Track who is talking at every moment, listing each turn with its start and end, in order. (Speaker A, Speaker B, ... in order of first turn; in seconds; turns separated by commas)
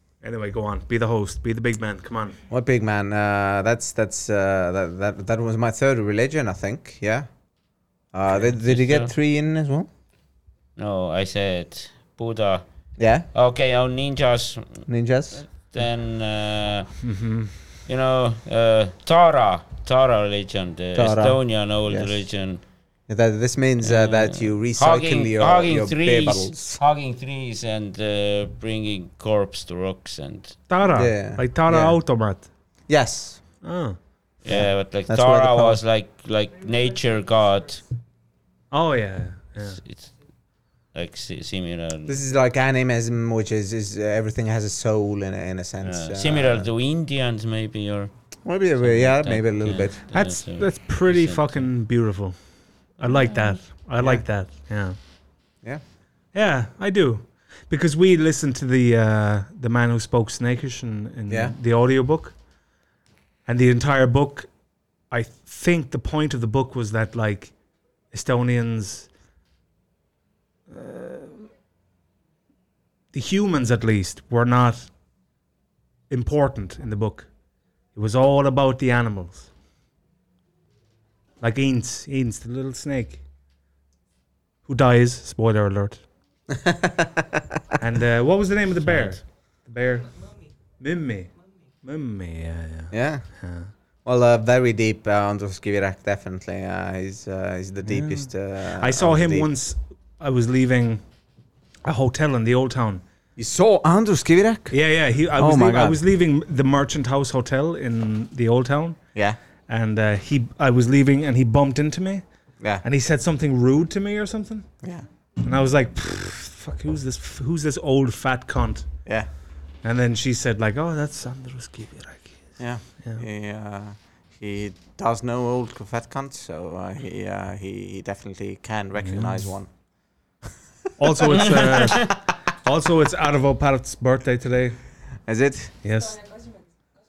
Speaker A: 0.2-2.4, Speaker B: 2.5-7.3, Speaker B: 8.1-9.9, Speaker C: 8.6-9.1, Speaker C: 10.8-12.7, Speaker B: 13.0-13.3, Speaker C: 13.3-16.9, Speaker B: 14.9-15.4, Speaker A: 17.0-17.5, Speaker C: 17.9-22.6, Speaker B: 21.0-22.1, Speaker B: 23.1-26.8, Speaker C: 23.8-30.6, Speaker A: 30.7-32.5, Speaker B: 30.9-32.0, Speaker B: 32.9-33.4, Speaker A: 33.6-34.0, Speaker C: 34.4-37.8, Speaker B: 34.5-35.8, Speaker A: 38.7-39.8, Speaker C: 39.8-40.1, Speaker C: 40.9-42.2, Speaker B: 42.1-46.7, Speaker C: 45.8-48.1, Speaker B: 48.5-50.0, Speaker C: 48.8-51.6, Speaker A: 50.1-52.4, Speaker A: 53.0-55.0, Speaker A: 56.3-62.4, Speaker B: 61.3-61.5, Speaker A: 63.5-64.5, Speaker A: 65.1-67.5, Speaker A: 68.1-69.1, Speaker A: 70.7-71.5, Speaker A: 73.1-74.9, Speaker A: 76.1-77.3, Speaker A: 78.0-79.5, Speaker A: 81.4-83.2, Speaker A: 84.7-86.0, Speaker B: 86.5-87.4, Speaker A: 87.8-90.1, Speaker A: 90.8-91.3, Speaker A: 91.8-93.7, Speaker B: 92.9-93.2, Speaker B: 94.0-99.5, Speaker A: 97.9-101.0, Speaker A: 101.8-103.0, Speaker B: 103.4-104.8, Speaker A: 104.7-109.0, Speaker B: 105.4-106.0, Speaker A: 109.7-112.2, Speaker A: 112.8-114.7, Speaker A: 115.4-118.9, Speaker A: 119.8-122.4, Speaker B: 122.6-129.7, Speaker A: 129.0-129.4, Speaker A: 131.0-134.8, Speaker B: 131.2-132.1, Speaker B: 135.3-135.7, Speaker A: 135.8-136.2